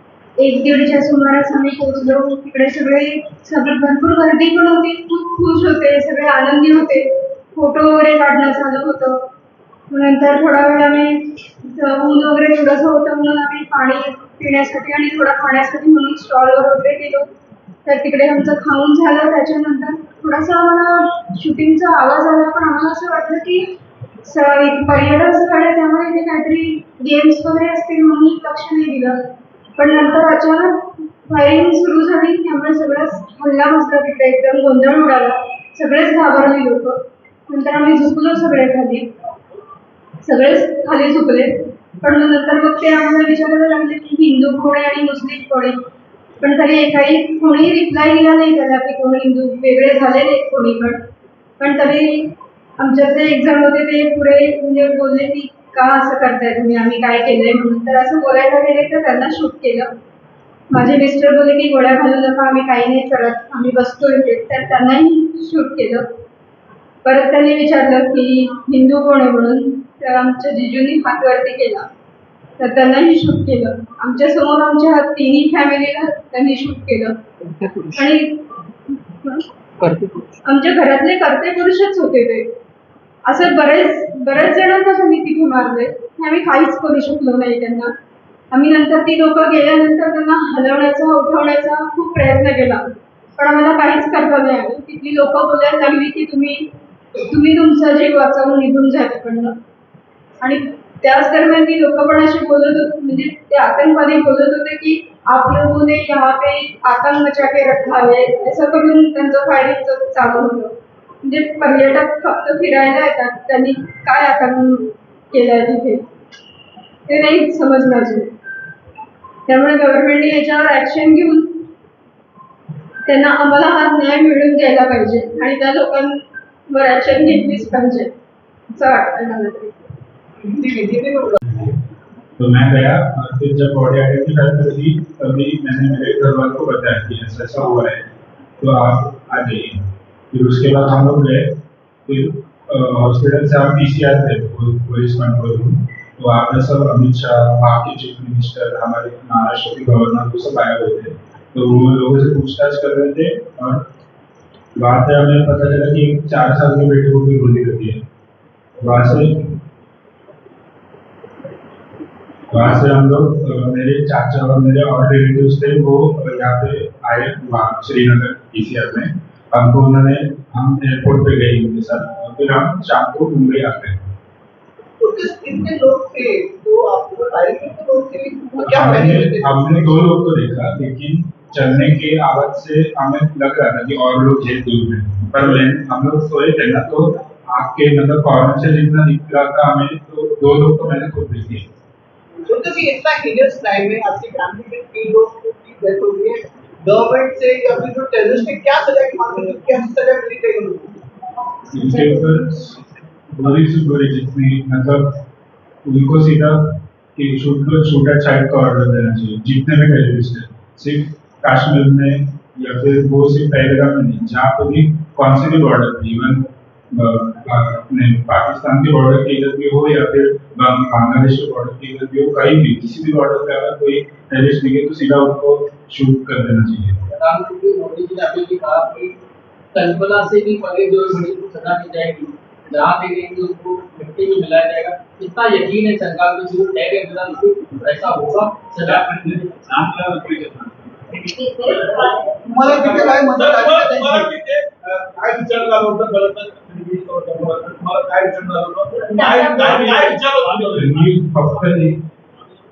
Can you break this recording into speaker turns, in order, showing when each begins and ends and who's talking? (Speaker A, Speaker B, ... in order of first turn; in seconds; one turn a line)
Speaker A: 0.4-9.2
Speaker A: 9.9-17.3
Speaker A: 17.9-23.7
Speaker A: 24.2-29.2
Speaker A: 29.8-37.0
Speaker A: 37.5-39.1
Speaker A: 40.2-45.8
Speaker A: 46.4-51.0
Speaker A: 51.6-59.9
Speaker A: 60.7-66.0
Speaker A: 67.0-71.9
Speaker A: 72.6-77.2
Speaker B: 77.4-78.0
Speaker A: 78.0-78.4
Speaker B: 79.8-80.4
Speaker A: 80.4-82.5
Speaker A: 83.3-87.9
Speaker A: 88.5-99.5
Speaker A: 100.4-116.0
Speaker A: 117.1-118.3
Speaker A: 119.5-121.6
Speaker A: 123.1-126.2
Speaker A: 126.7-128.1
Speaker A: 128.7-129.9
Speaker C: 130.4-131.4
Speaker D: 131.5-131.8
Speaker D: 132.4-138.1
Speaker D: 138.6-141.6
Speaker D: 142.1-153.8
Speaker D: 154.8-158.0
Speaker D: 158.8-159.4
Speaker D: 162.5-174.1
Speaker C: 175.0-180.0
Speaker D: 178.6-191.7
Speaker C: 192.5-201.0
Speaker D: 201.7-202.7
Speaker D: 203.3-205.1
Speaker D: 205.9-206.6
Speaker D: 207.2-227.0
Speaker B: 227.1-229.2
Speaker B: 229.7-240.7
Speaker E: 241.7-251.0
Speaker C: 242.3-244.3
Speaker C: 249.3-250.1
Speaker A: 249.3-249.7
Speaker D: 250.7-252.0